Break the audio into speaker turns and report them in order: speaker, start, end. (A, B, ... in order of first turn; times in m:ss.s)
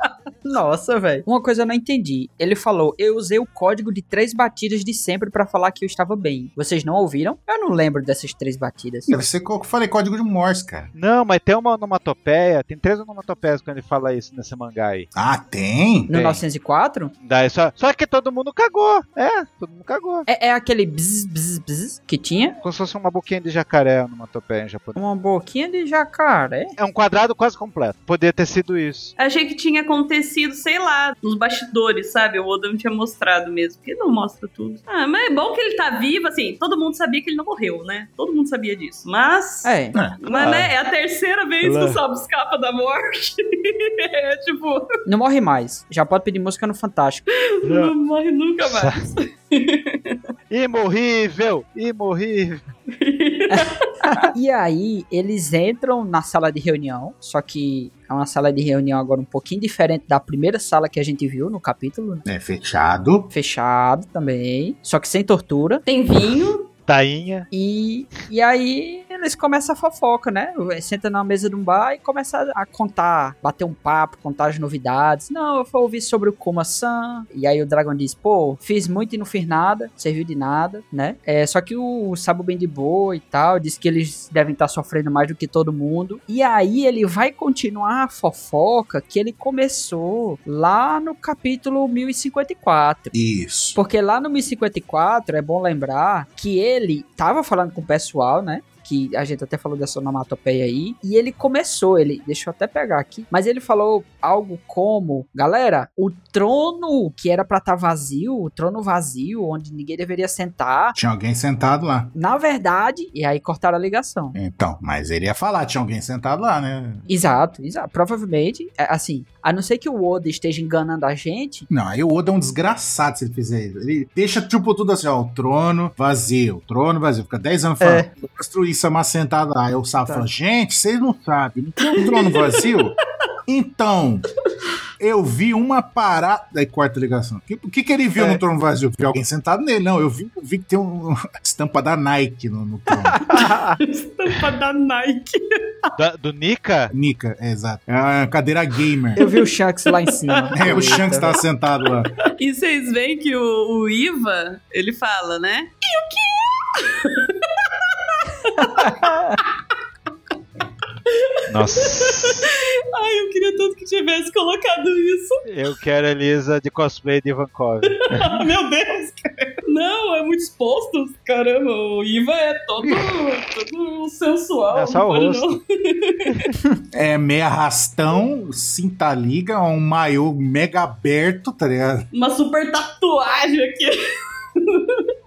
0:00.4-0:09.2 A
0:09.1-0:10.9 B
0:11.0-0:15.1 C
0:15.2-0:16.1 B
0:16.1-0:17.1 A
0:16.1-0:16.4 C
0:17.2-0:20.3 C
0:20.3-0:22.6 A
0:22.6-0:25.0 C
0:25.0-0:26.8 A
0:26.8-0:29.1 C
0:29.2-0:44.9 D
0:39.6-0:40.0 A
0:40.3-0:40.7 C
0:41.6-0:42.0 C
0:45.1-0:47.3 A
0:47.4-0:50.2 D
0:47.6-0:47.9 C
0:48.6-0:49.0 C
0:50.5-0:52.6 C
0:52.9-0:54.2 D
0:53.5-1:02.2 A
1:02.2-1:03.3 B
1:03.3-1:05.8 A
1:05.9-1:06.7 D
1:06.9-1:07.5 C
1:07.5-1:33.1 A
1:33.1-1:33.8 B
1:33.8-1:51.0 A
1:51.0-1:52.1 B
1:52.2-1:54.4 A
1:54.4-1:57.0 B
1:57.1-2:01.7 A
2:01.7-2:14.3 B
2:07.8-2:08.1 A
2:10.0-2:10.3 A
2:12.0-2:12.8 D
2:15.0-2:23.2 B
2:23.0-2:23.8 A
2:23.4-2:25.9 D
2:26.0-2:26.9 C
2:26.9-2:29.2 B
2:29.2-2:31.4 A
2:30.1-2:30.4 D
2:30.5-2:32.1 B
2:32.2-2:39.6 D
2:38.6-2:39.4 A
2:41.1-2:45.4 D
2:41.5-2:42.5 C
2:45.5-2:48.4 C
2:48.1-2:56.4 D
2:52.8-2:53.2 C
2:54.7-2:55.6 C
2:56.9-3:02.1 B
3:02.1-3:04.0 D
3:04.6-3:05.1 D